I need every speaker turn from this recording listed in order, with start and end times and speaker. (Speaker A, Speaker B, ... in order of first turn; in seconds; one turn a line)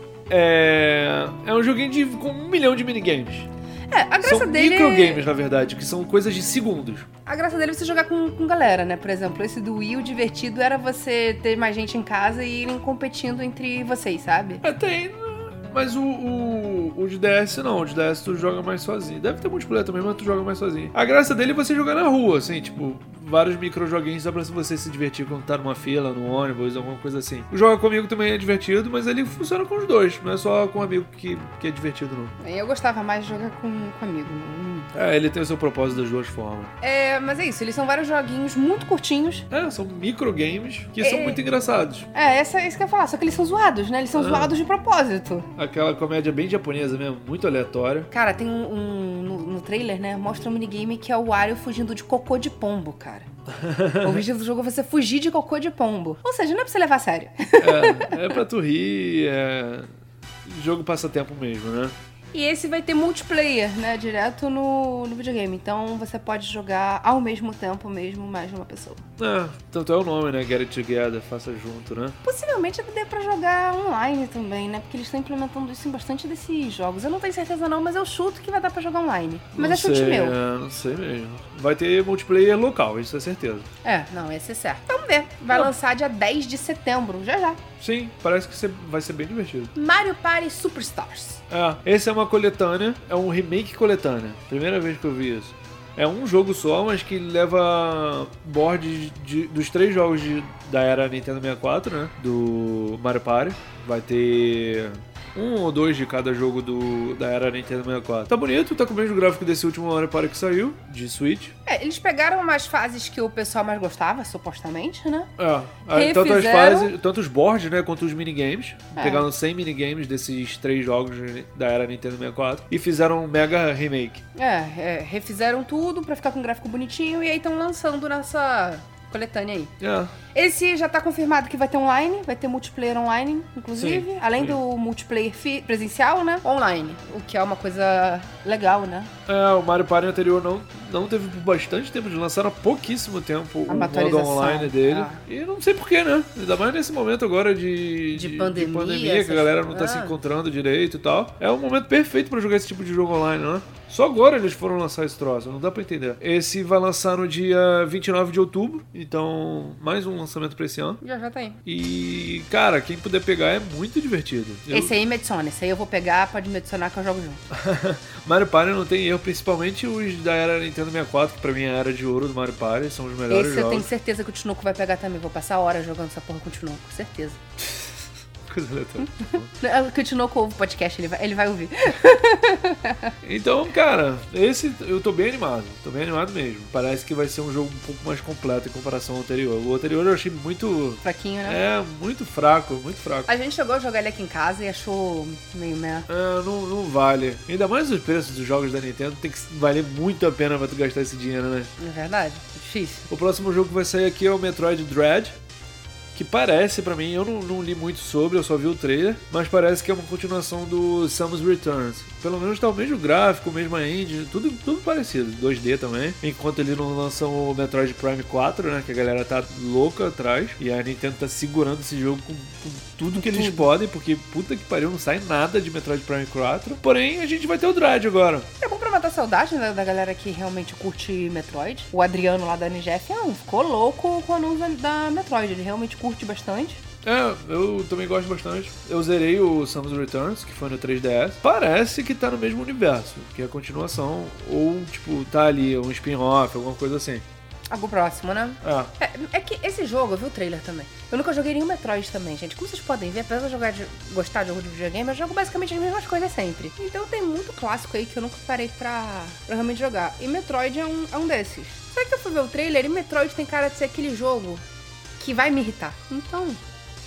Speaker A: 0.3-3.5
Speaker B: 3.9-5.3
Speaker A: 4.2-7.1
Speaker B: 7.2-14.6
Speaker A: 14.6-32.3
Speaker B: 32.4-34.9
Speaker A: 34.9-36.7
Speaker B: 36.8-39.5
Speaker A: 39.5-42.1
Speaker B: 41.0-41.4
Speaker B: 42.1-45.5
Speaker A: 44.1-44.5
Speaker A: 45.5-48.1
Speaker B: 48.1-53.3
Speaker A: 53.5-54.2
Speaker B: 54.0-58.4
Speaker A: 57.6-59.9
Speaker A: 60.4-61.9
Speaker B: 62.3-69.0
Speaker A: 69.2-72.2
Speaker B: 72.2-80.3
Speaker A: 79.5-83.7
Speaker B: 83.8-87.6
Speaker A: 87.8-89.7
Speaker B: 89.7-91.4
Speaker A: 91.5-111.5
Speaker B: 111.7-115.3
Speaker A: 115.4-124.2
Speaker B: 115.9-116.9
Speaker B: 119.0-119.2
Speaker B: 124.3-129.7
Speaker A: 129.8-130.1
Speaker B: 130.3-139.1
Speaker A: 133.8-134.6
Speaker A: 139.3-161.0
Speaker B: 143.7-145.2
Speaker B: 148.1-150.1
Speaker B: 161.0-161.6
Speaker A: 161.6-164.9
Speaker B: 164.7-167.4
Speaker A: 167.5-173.9
Speaker B: 173.3-177.4
Speaker A: 178.5-179.5
Speaker B: 179.5-183.1
Speaker A: 183.2-193.3
Speaker B: 191.0-191.6
Speaker B: 193.3-196.1
Speaker A: 196.1-201.7
Speaker B: 201.8-203.1
Speaker A: 203.1-205.4
Speaker A: 206.1-228.5
Speaker B: 223.2-223.7
Speaker B: 228.6-236.8
Speaker A: 237.0-247.2
Speaker B: 247.7-264.6
Speaker A: 248.6-248.9
Speaker B: 265.2-266.6